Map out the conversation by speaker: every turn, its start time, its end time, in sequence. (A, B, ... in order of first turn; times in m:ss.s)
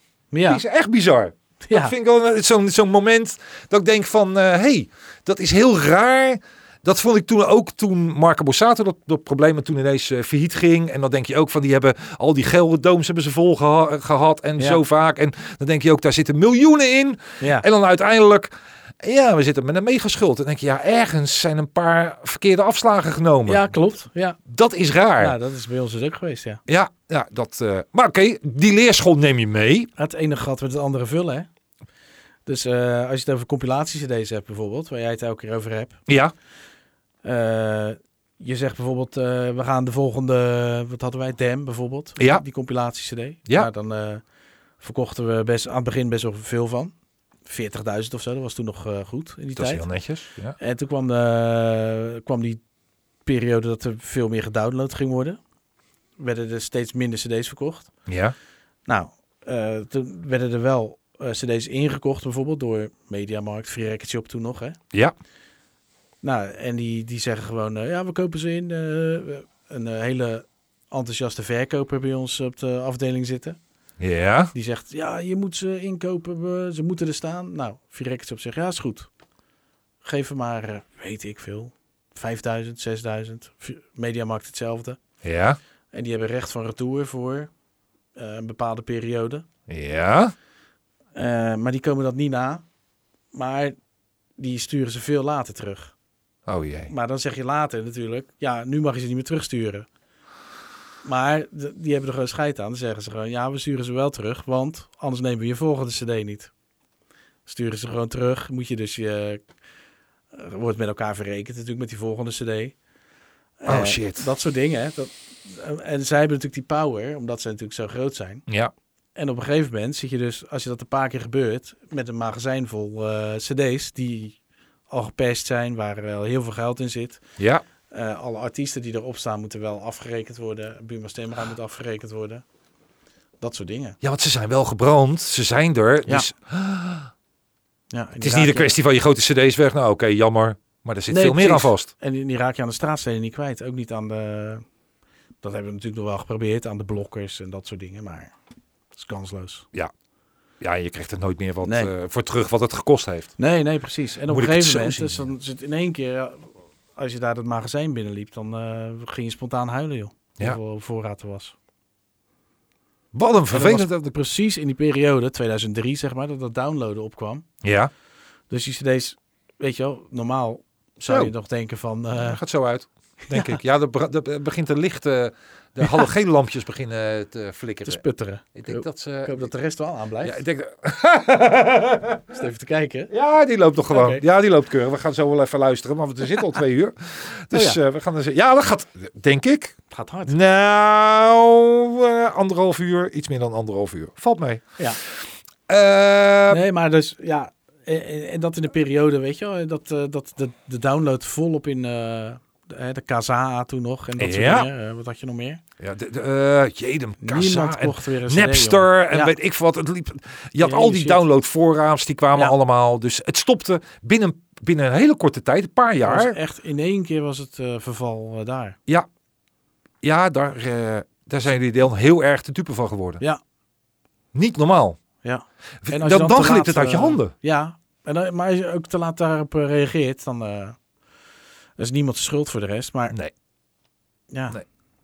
0:00.3-0:00.6 A
0:00.4-0:23.7 B
0:01.6-0:01.9 A
0:17.4-0:17.7 A
0:23.5-0:24.4 A
0:24.5-0:25.4 B
0:25.2-0:26.6 A
0:26.7-0:29.9 B
0:30.0-0:31.5 A
0:32.5-0:36.0 A
0:36.1-0:36.3 B
0:37.2-0:44.2 A
0:44.8-0:46.9 A
0:47.5-0:49.9 A
0:49.6-0:50.6 B
0:50.6-0:52.6 A
0:53.2-0:55.4 A
0:56.2-0:57.9 A
0:58.1-0:58.4 B
0:58.9-1:04.8 A
1:06.2-1:13.6 A
1:14.0-1:14.5 B
1:14.5-1:19.1 A
1:20.0-1:25.0 A
1:25.2-1:25.6 B
1:25.9-1:27.5 A
1:28.2-1:29.5 A
1:29.7-1:30.3 B
1:31.2-1:32.6 A
1:33.3-1:33.8 A
1:34.4-1:35.9 A
1:36.5-1:36.9 B
1:36.9-1:39.9 A
1:41.0-1:46.5 A
1:47.5-1:49.4 A
1:50.3-1:52.8 A
1:53.6-1:58.4 A
1:53.7-1:54.3 B
1:59.2-2:04.4 A
2:04.9-2:07.2 A
2:07.4-2:07.6 B
2:07.9-2:12.4 A
2:13.4-2:14.0 A
2:14.0-2:17.1 B
2:17.9-2:18.7 A
2:18.2-2:21.9 B
2:21.1-2:24.6 A
2:25.4-2:28.3 A
2:29.0-2:29.7 A
2:30.6-2:33.3 B
2:31.6-2:31.9 A
2:33.4-2:41.6 A
2:34.3-2:35.3 B
2:43.1-2:43.9 B
2:43.5-2:47.4 A
2:47.6-2:47.9 B
2:48.5-2:52.4 A
2:51.0-2:51.3 B
2:52.2-2:58.0 B
2:53.3-2:53.6 A
2:57.8-3:00.4 A
2:58.6-2:59.4 B
3:00.2-3:02.4 B
3:02.3-3:03.1 A
3:03.1-3:14.6 B
3:03.9-3:04.2 A
3:07.5-3:07.8 A
3:09.9-3:10.4 A
3:15.7-3:16.6 B
3:16.5-3:25.6 A
3:24.2-3:24.7 B
3:25.8-3:36.4 B
3:27.2-3:29.4 A
3:30.6-3:31.2 A
3:36.0-3:38.8 A
3:40.0-3:43.2 B
3:44.3-3:45.0 B
3:45.2-3:50.8 A
3:45.8-3:47.3 B
3:51.8-3:53.2 A
3:54.3-3:54.6 A